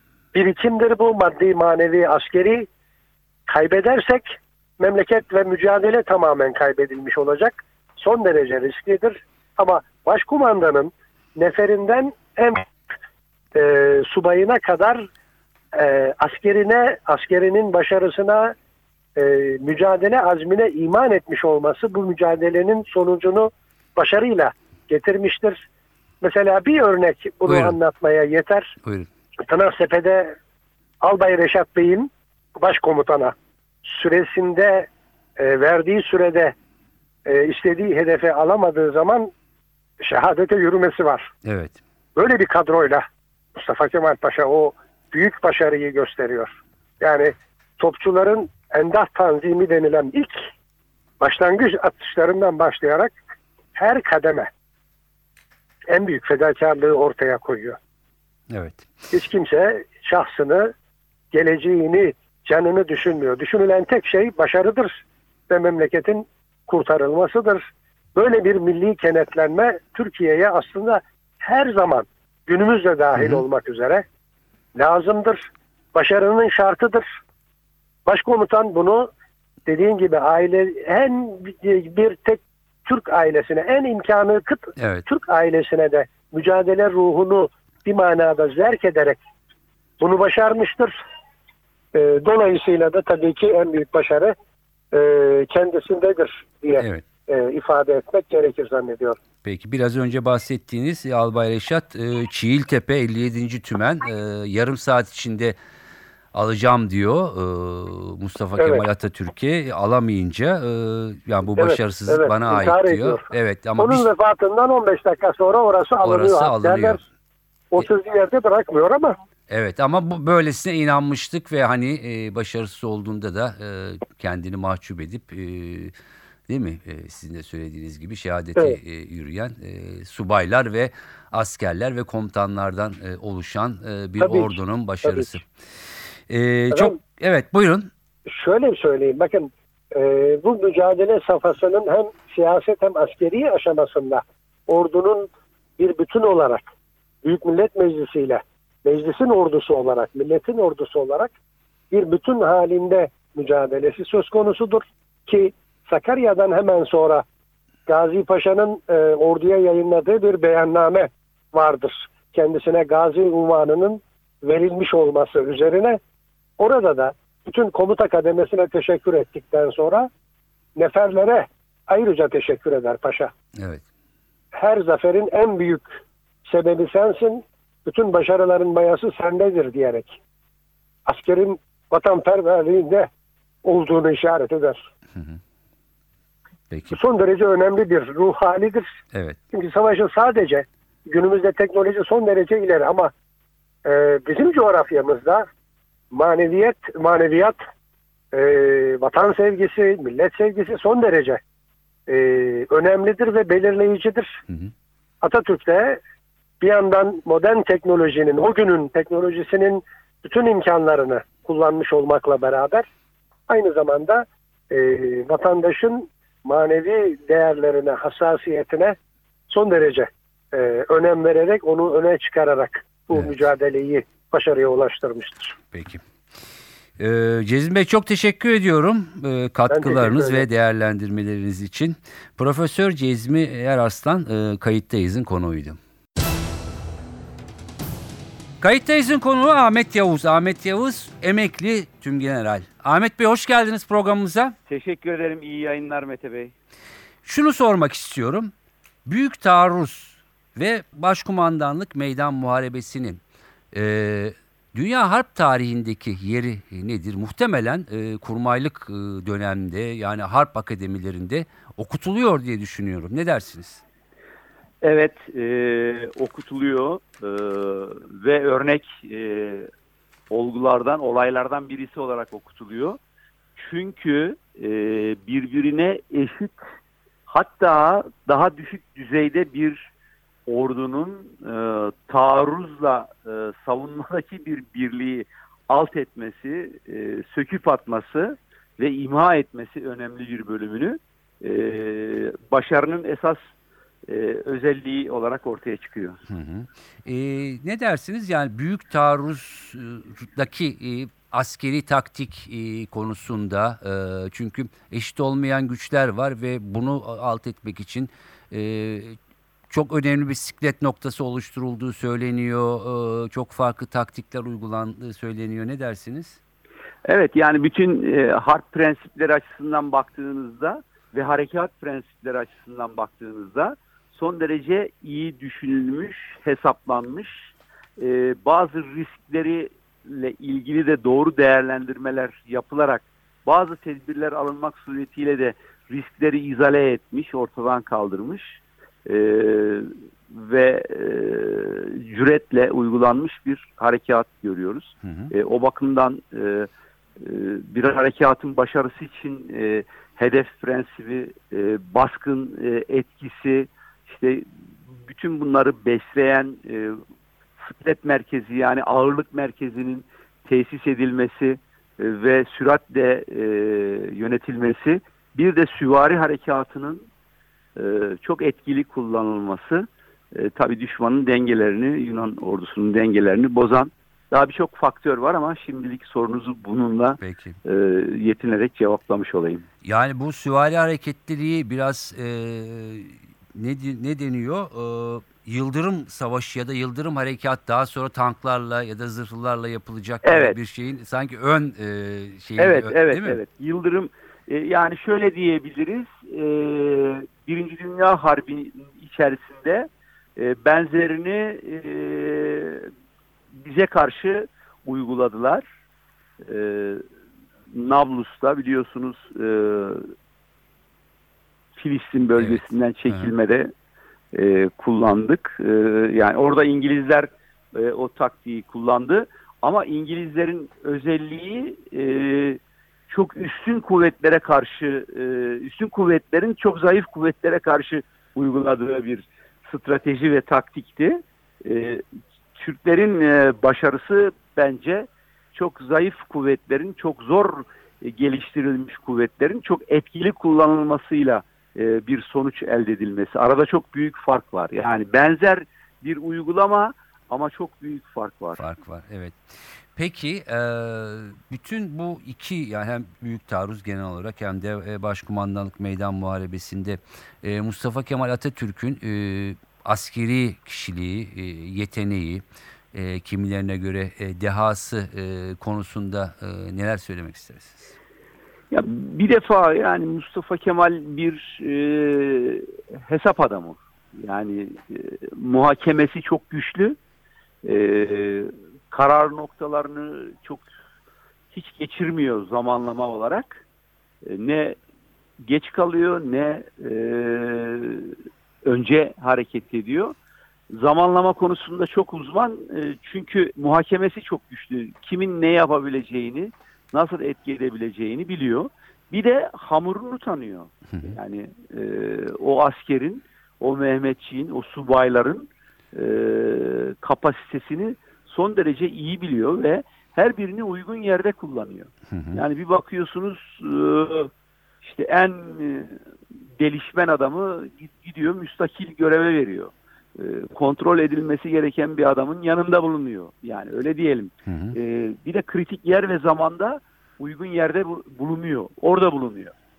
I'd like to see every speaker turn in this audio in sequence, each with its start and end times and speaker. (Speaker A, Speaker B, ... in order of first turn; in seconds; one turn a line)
Speaker A: 0.3-2.7
Speaker A: 3.5-12.7
Speaker A: 13.5-15.1
Speaker A: 15.7-18.5
Speaker A: 19.1-25.6
Speaker A: 26.2-28.8
Speaker B: 27.5-27.8
Speaker B: 28.8-29.1
Speaker A: 29.5-30.4
Speaker A: 31.0-36.5
Speaker A: 37.2-39.3
Speaker A: 40.0-41.3
Speaker B: 41.4-41.8
Speaker A: 42.1-50.5
Speaker A: 51.2-53.2
Speaker A: 53.7-54.5
Speaker A: 55.9-57.8
Speaker B: 58.5-58.9
Speaker A: 59.1-60.7
Speaker A: 61.3-74.0
Speaker B: 73.2-73.4
Speaker A: 74.8-77.1
Speaker A: 78.0-79.1
Speaker A: 79.7-89.2
Speaker B: 84.8-85.0
Speaker A: 90.0-90.9
Speaker A: 91.9-94.3
Speaker A: 94.9-99.2
Speaker B: 96.8-97.0
Speaker B: 99.4-105.5
Speaker B: 106.3-114.1
Speaker A: 108.6-108.8
Speaker A: 111.6-113.2
Speaker A: 113.8-117.0
Speaker B: 116.0-117.0
Speaker A: 117.7-119.2
Speaker B: 119.5-125.9
Speaker B: 126.5-135.5
Speaker A: 134.2-135.3
Speaker B: 136.3-137.9
Speaker A: 136.7-136.9
Speaker A: 138.3-146.7
Speaker A: 147.2-151.3
Speaker A: 151.9-157.2
Speaker A: 157.9-166.0
Speaker A: 166.6-170.1
Speaker A: 170.8-173.3
Speaker B: 173.6-173.8
Speaker A: 174.5-175.9
Speaker A: 176.4-180.2
Speaker A: 181.1-183.1
Speaker A: 183.6-184.8
Speaker B: 186.7-186.9
Speaker A: 186.9-188.9
Speaker B: 189.1-189.4
Speaker A: 189.5-193.1
Speaker A: 193.8-195.5
Speaker A: 196.1-197.6
Speaker A: 198.3-201.4
Speaker A: 202.1-204.4
Speaker A: 205.2-206.0
Speaker A: 206.6-212.9
Speaker A: 213.5-218.9
Speaker A: 219.5-225.6
Speaker B: 225.7-226.0
Speaker B: 227.0-235.8
Speaker A: 229.7-230.4
Speaker B: 238.6-244.5
Speaker C: 244.7-246.5
Speaker B: 247.2-248.5
Speaker B: 249.1-253.2
Speaker B: 253.7-263.8
Speaker C: 264.8-269.7
Speaker C: 270.3-273.0
Speaker C: 273.6-276.6
Speaker C: 277.3-279.9
Speaker C: 280.5-293.4
Speaker C: 294.1-296.2
Speaker B: 296.3-309.2
Speaker B: 309.7-316.4
Speaker C: 317.1-327.5
Speaker C: 328.0-357.0
Speaker B: 345.0-345.3
Speaker C: 357.6-367.1
Speaker C: 367.8-379.6
Speaker B: 377.2-377.6
Speaker B: 379.8-393.4
Speaker C: 390.2-390.6
Speaker C: 392.6-402.9
Speaker C: 403.5-405.6
Speaker C: 406.4-407.0
Speaker C: 407.7-410.1
Speaker C: 411.8-413.7
Speaker B: 412.4-413.3
Speaker C: 414.3-432.0
Speaker C: 432.5-448.6
Speaker B: 448.6-449.4
Speaker B: 449.9-467.9
Speaker C: 468.7-477.0
Speaker C: 477.6-480.6
Speaker C: 481.5-483.6
Speaker C: 484.2-484.8
Speaker C: 485.4-490.1
Speaker C: 490.7-514.3
Speaker B: 512.1-512.4
Speaker C: 514.8-516.0
Speaker C: 516.6-529.5
Speaker B: 524.5-524.8